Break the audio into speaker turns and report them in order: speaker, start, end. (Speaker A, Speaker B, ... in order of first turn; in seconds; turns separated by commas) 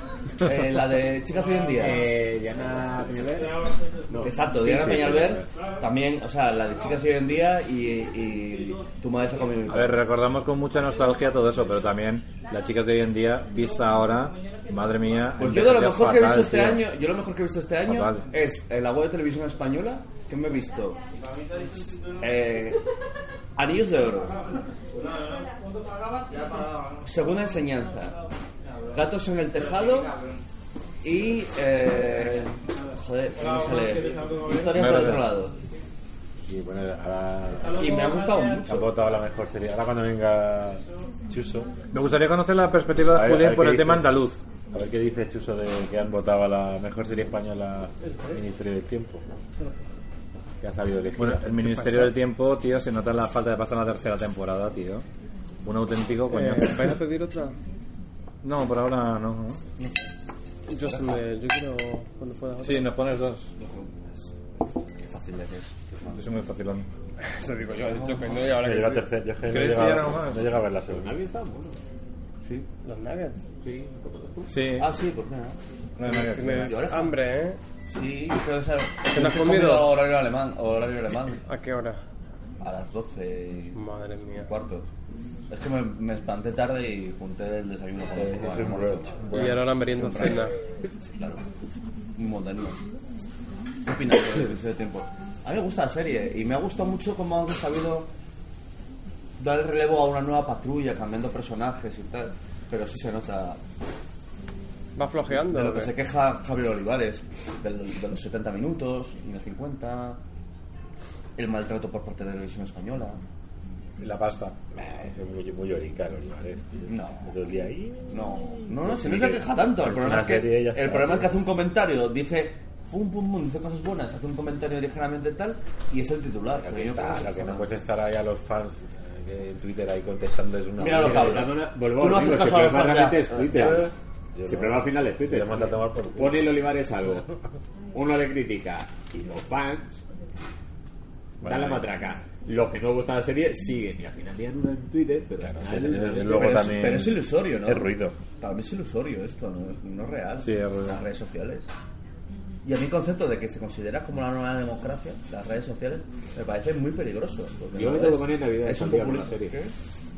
Speaker A: 0.4-2.0, Speaker B: 1.7-4.4, Speaker A: 4.2-10.0, Speaker C: 4.6-5.5, Speaker D: 9.7-16.9, Speaker A: 15.4-21.0, Speaker D: 17.9-18.2, Speaker A: 21.6-22.8, Speaker A: 23.6-24.6, Speaker A: 26.9-28.2, Speaker A: 28.9-30.2, Speaker A: 31.0-35.5, Speaker D: 34.7-35.3, Speaker C: 36.5-41.7, Speaker A: 37.7-38.9, Speaker D: 41.9-44.4, Speaker C: 43.1-44.2, Speaker C: 44.7-49.2, Speaker C: 50.6-51.9, Speaker D: 51.2-55.0, Speaker D: 55.6-57.0, Speaker E: 56.3-57.5, Speaker D: 58.4-59.6, Speaker E: 60.7-62.9, Speaker A: 60.7-61.2, Speaker D: 62.6-63.5, Speaker A: 63.6-63.9, Speaker A: 65.0-65.8, Speaker D: 66.1-66.9, Speaker E: 67.2-69.1, Speaker C: 68.5-71.2, Speaker D: 69.4-70.5, Speaker B: 70.9-71.8, Speaker E: 72.8-73.4, Speaker B: 73.6-74.5, Speaker D: 74.5-74.9, Speaker A: 74.8-75.6, Speaker D: 76.0-76.7, Speaker E: 76.0-77.6, Speaker A: 76.1-77.2, Speaker A: 77.9-81.4, Speaker E: 79.0-80.0, Speaker E: 81.4-82.0, Speaker A: 82.6-83.8, Speaker E: 83.7-84.5, Speaker A: 84.4-84.9, Speaker A: 85.5-90.5, Speaker C: 88.2-90.3, Speaker E: 89.3-90.5, Speaker A: 91.0-91.4, Speaker A: 92.2-92.8, Speaker A: 93.8-98.1, Speaker A: 99.4-103.6, Speaker E: 105.0-105.9, Speaker A: 105.4-110.2, Speaker A: 111.3-113.2, Speaker D: 114.0-114.5, Speaker C: 114.7-121.3, Speaker A: 116.9-117.3, Speaker A: 118.1-127.7, Speaker C: 126.6-131.5, Speaker A: 130.8-133.9, Speaker B: 130.9-133.9, Speaker C: 134.3-136.5, Speaker B: 134.4-137.3, Speaker B: 137.9-140.0, Speaker C: 141.4-141.8, Speaker B: 141.4-146.5, Speaker C: 145.4-148.2, Speaker A: 146.0-151.7, Speaker D: 150.4-151.0, Speaker A: 152.6-159.7, Speaker B: 157.7-159.6